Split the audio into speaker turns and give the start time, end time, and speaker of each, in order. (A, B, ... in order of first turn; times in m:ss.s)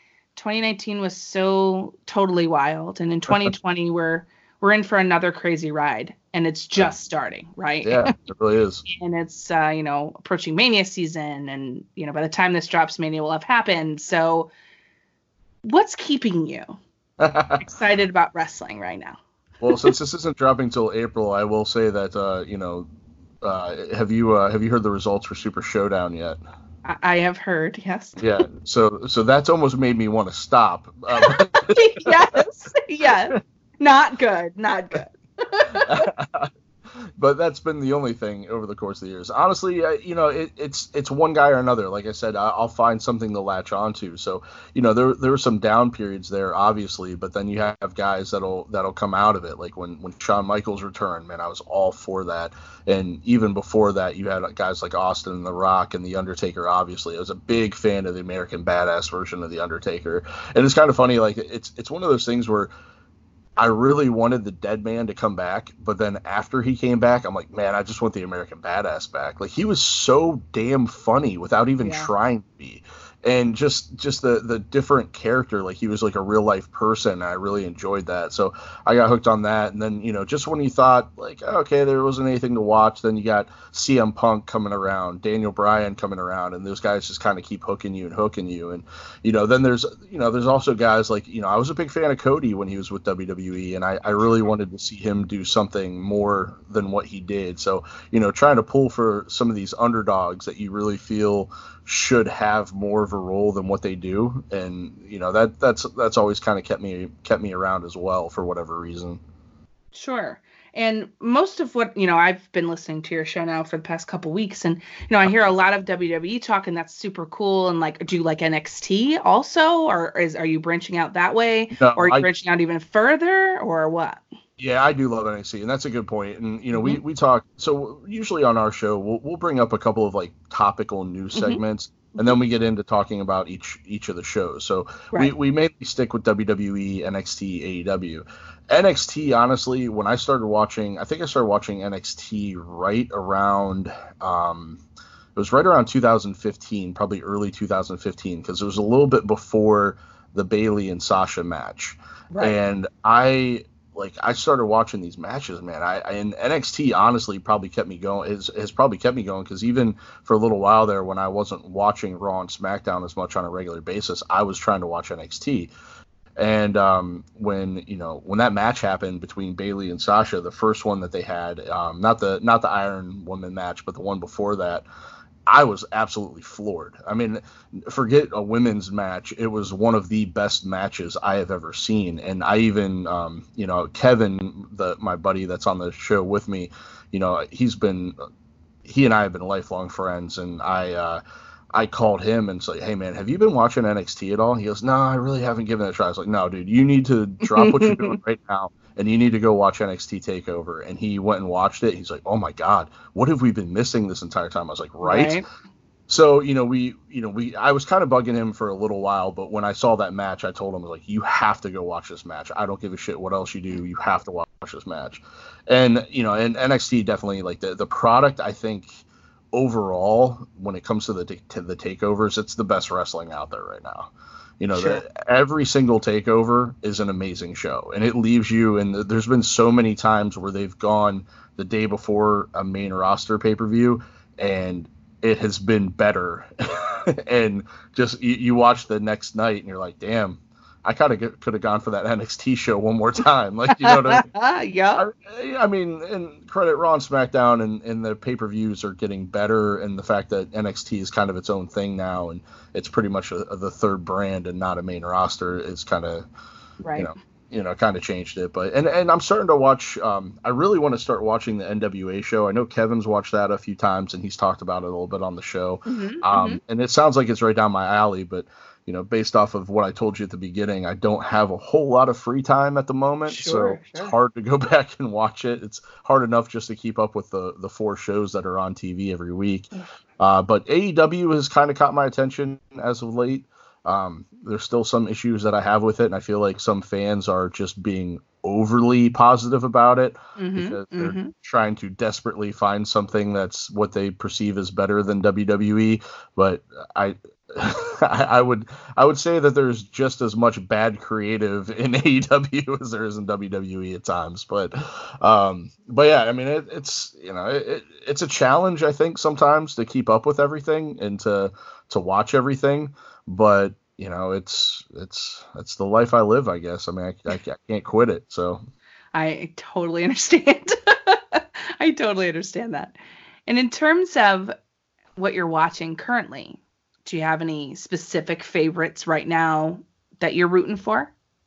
0:00.4-0:08.1 A
0:07.8-0:08.8 B
0:08.9-0:14.5 A
0:15.6-0:16.8 A
0:17.2-0:17.6 B
0:17.6-0:19.9 A
0:19.6-0:22.9 B
0:23.4-0:26.4 B
0:26.8-0:28.2 A
0:28.2-0:32.2 B
0:31.1-0:36.0 A
0:33.1-0:33.4 B
0:35.8-0:36.5 B
0:37.2-1:02.7 B
1:03.6-1:49.2 B
1:11.8-1:12.1 A
1:49.9-2:04.2 A
2:01.8-2:02.3 B
2:04.6-2:24.8 B
2:06.7-2:07.0 A
2:11.4-2:11.6 A
2:25.4-2:45.7 B
2:32.3-2:32.6 A
2:46.4-2:54.9 B
2:55.5-3:08.2 B
3:08.8-3:11.2 B
3:11.7-3:25.4 B
3:17.4-3:18.2 A
3:25.0-3:25.4 A
3:26.1-3:39.0 B
3:39.5-4:04.3 B
3:44.7-3:45.0 A
4:03.7-4:05.0 A
4:05.0-4:16.3 B
4:16.8-4:17.1 A
4:17.0-5:18.6 B
4:25.9-4:26.6 A
4:33.3-4:34.2 A
4:50.4-4:51.3 A
5:19.1-5:23.0 A
5:23.5-5:24.5 A
5:25.2-5:31.1 A